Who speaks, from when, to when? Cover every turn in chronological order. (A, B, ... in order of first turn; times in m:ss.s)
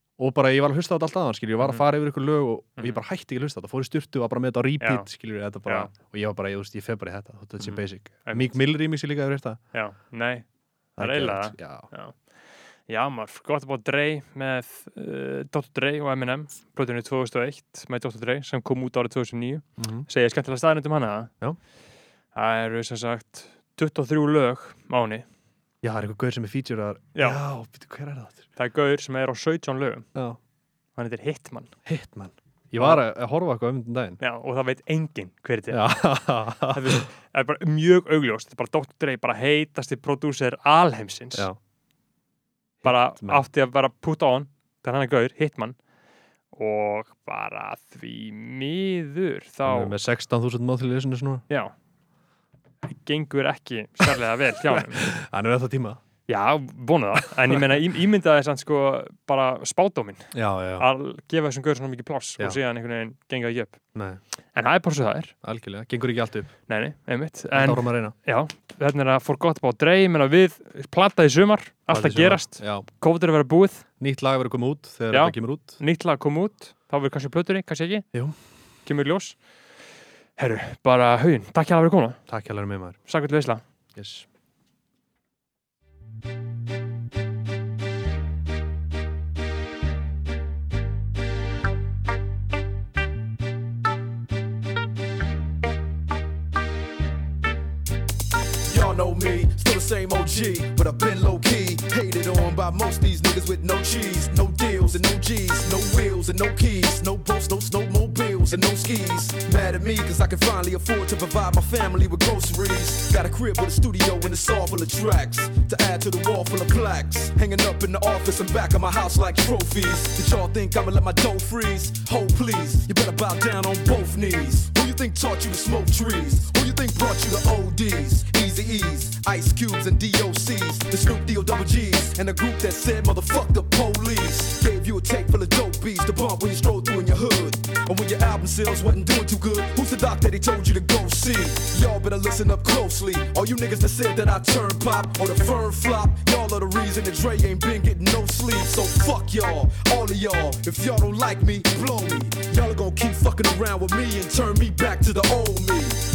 0:00.2-0:09.6 A
0:01.6-0:01.9 B
0:02.8-0:03.0 B
0:04.8-0:05.1 B
0:05.6-0:05.9 B
0:07.6-0:08.6 B
0:09.7-0:10.4 B
0:11.0-0:11.9 A
0:11.0-0:12.2 B
0:12.9-0:21.3 B
0:19.8-0:20.1 A
0:22.3-0:25.2 B
0:25.8-0:28.4 A
0:27.1-0:27.4 B
0:28.6-0:30.1 B
0:31.0-0:31.7 B
0:31.8-0:34.2 A
0:34.2-0:35.9 B
0:35.7-0:37.0 A
0:36.7-0:41.5 B
0:42.8-0:43.4 A
0:42.8-0:45.8 B
0:46.5-0:49.9 B
0:49.6-0:51.4 A
0:51.5-0:51.7 B
0:52.9-0:55.0 B
0:54.6-0:56.0 A
0:56.3-1:03.8 B
1:00.3-1:00.9 A
1:03.9-1:04.2 A
1:04.5-1:05.3 B
1:05.4-1:06.5 A
1:06.7-1:13.8 B
1:07.5-1:08.1 A
1:11.9-1:12.9 A
1:14.0-1:15.8 A
1:15.1-1:18.1 B
1:18.8-1:19.4 B
1:20.4-1:22.2 B
1:22.3-1:23.0 A
1:23.0-1:23.6 B
1:23.9-1:24.3 A
1:38.6-2:36.0 C